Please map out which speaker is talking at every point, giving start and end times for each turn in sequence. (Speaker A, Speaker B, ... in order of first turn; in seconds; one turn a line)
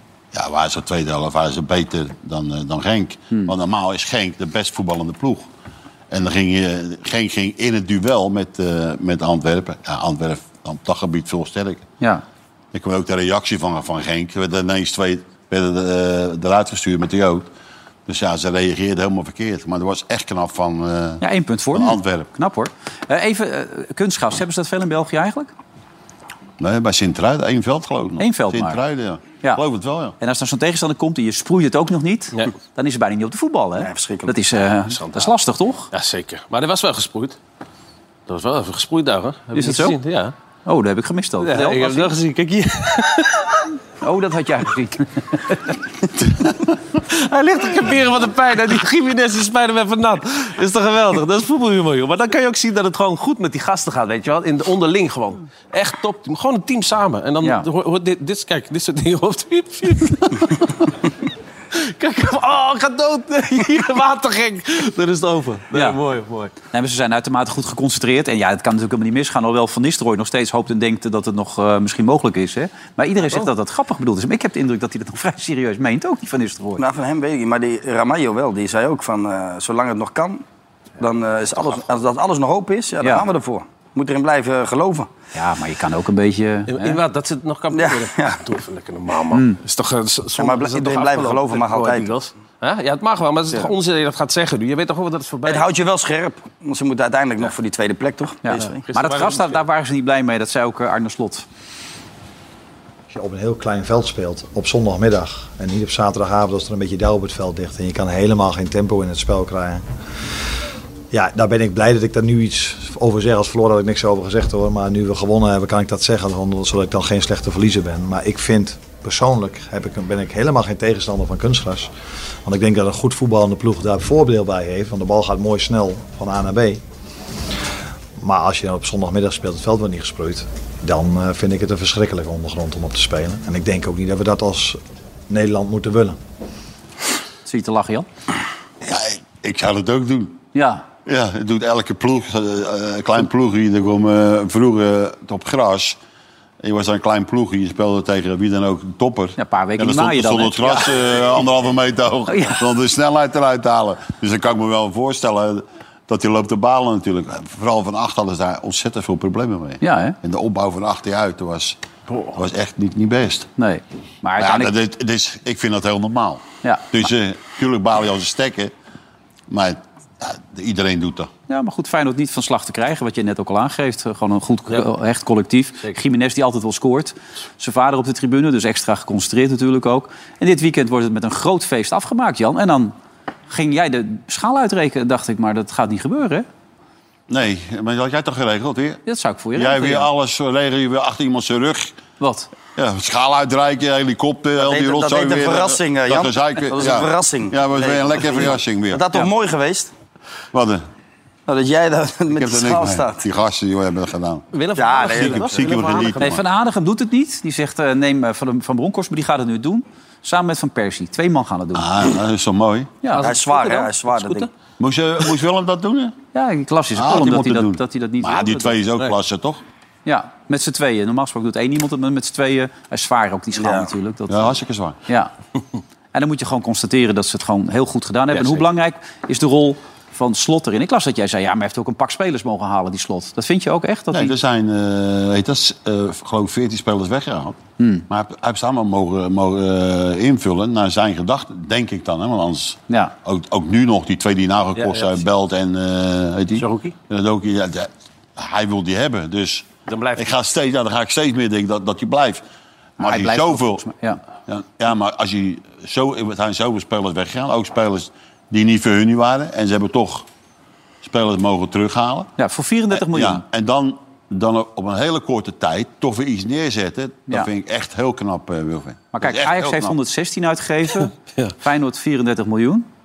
Speaker A: 0.3-5.5
Speaker A: 6.1-11.9
Speaker A: 12.7-17.5
Speaker A: 18.1-22.3
Speaker B: 21.2-25.5
Speaker A: 26.6-30.2
Speaker B: 28.2-28.8
Speaker B: 30.2-35.9
Speaker C: 33.8-34.4
Speaker D: 35.0-35.3
Speaker D: 35.9-37.4
Speaker D: 38.3-40.3
Speaker B: 39.6-40.0
Speaker B: 40.7-42.1
Speaker D: 41.4-43.6
Speaker B: 44.0-45.6
Speaker D: 47.1-60.6
Speaker D: 61.7-66.5
Speaker B: 66.7-76.8
Speaker C: 76.8-80.4
Speaker C: 81.0-85.1
Speaker B: 85.3-87.0
Speaker D: 86.7-95.7
Speaker C: 87.7-88.4
Speaker C: 90.4-92.1
Speaker C: 95.5-98.8
Speaker B: 98.5-101.5
Speaker D: 98.6-99.6
Speaker E: 103.1-109.8
Speaker E: 111.1-121.9
Speaker E: 122.5-126.8
Speaker E: 128.2-134.8
Speaker E: 135.3-136.2
Speaker B: 137.5-138.1
Speaker A: 138.8-140.4
Speaker B: 140.5-140.8
Speaker A: 141.1-146.0
Speaker A: 146.6-161.8
Speaker B: 149.4-150.9
Speaker B: 152.3-152.7
Speaker B: 159.8-160.2
Speaker A: 162.3-163.5
Speaker B: 163.6-164.7
Speaker A: 164.4-168.7
Speaker B: 166.6-167.1
Speaker A: 169.5-171.3
Speaker B: 171.5-182.9
Speaker B: 183.5-186.5
Speaker A: 187.3-189.0
Speaker B: 189.1-190.1
Speaker A: 189.6-191.9
Speaker B: 192.2-192.5
Speaker A: 192.8-199.1
Speaker C: 194.6-199.9
Speaker A: 200.5-200.8
Speaker C: 201.5-203.2
Speaker A: 202.3-204.5
Speaker D: 204.5-206.4
Speaker C: 204.8-206.1
Speaker A: 205.1-206.4
Speaker B: 206.2-211.9
Speaker A: 211.7-212.9
Speaker D: 213.1-214.5
Speaker C: 213.2-214.5
Speaker A: 214.8-216.1
Speaker B: 216.3-218.8
Speaker A: 216.9-219.6
Speaker B: 220.1-224.5
Speaker C: 223.6-223.9
Speaker A: 224.3-225.0
Speaker B: 226.1-234.3
Speaker D: 228.4-228.6
Speaker A: 234.1-237.6
Speaker B: 237.8-238.1
Speaker A: 238.1-252.4
Speaker D: 244.8-245.2
Speaker D: 246.6-246.9
Speaker D: 249.9-250.3
Speaker A: 253.0-253.8
Speaker B: 253.0-254.2
Speaker A: 254.5-260.2
Speaker A: 261.0-262.3
Speaker B: 262.4-263.4
Speaker A: 262.9-270.0
Speaker B: 269.1-272.9